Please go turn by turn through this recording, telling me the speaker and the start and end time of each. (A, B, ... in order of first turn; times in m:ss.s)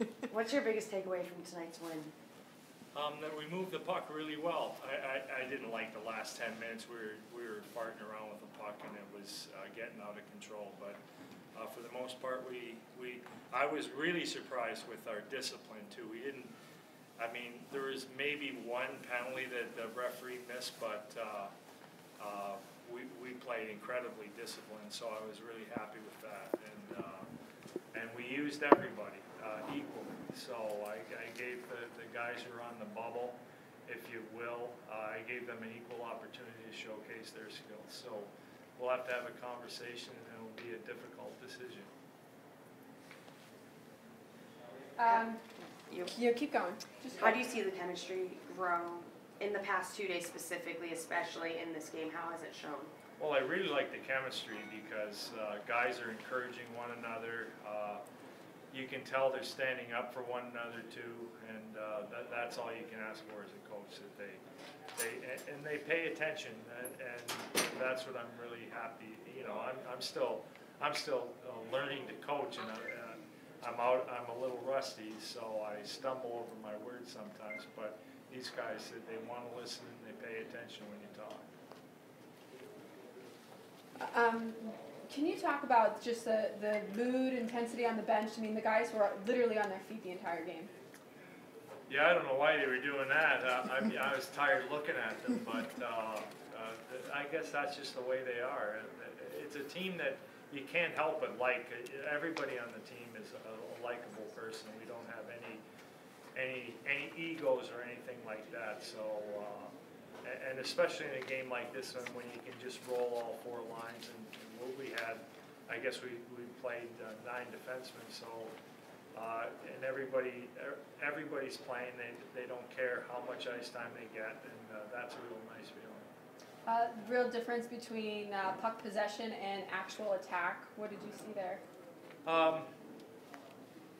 0:00.3-0:02.1 A
0:02.9-0:11.0 B
0:11.6-0:16.5 B
0:17.2-0:21.5 B
0:22.2-0:27.3 B
0:27.9-0:41.9 B
0:45.0-0:45.4 C
0:45.9-0:46.1 A
0:46.0-0:47.5 C
0:47.2-0:52.9 A
0:53.2-0:58.0 B
0:58.7-1:04.4 B
1:05.0-1:21.5 B
1:24.0-1:30.7 C
1:31.9-1:45.6 B
1:46.4-1:58.5 B
1:59.2-2:06.1 B
2:06.7-2:11.6 C
2:12.2-2:12.7 B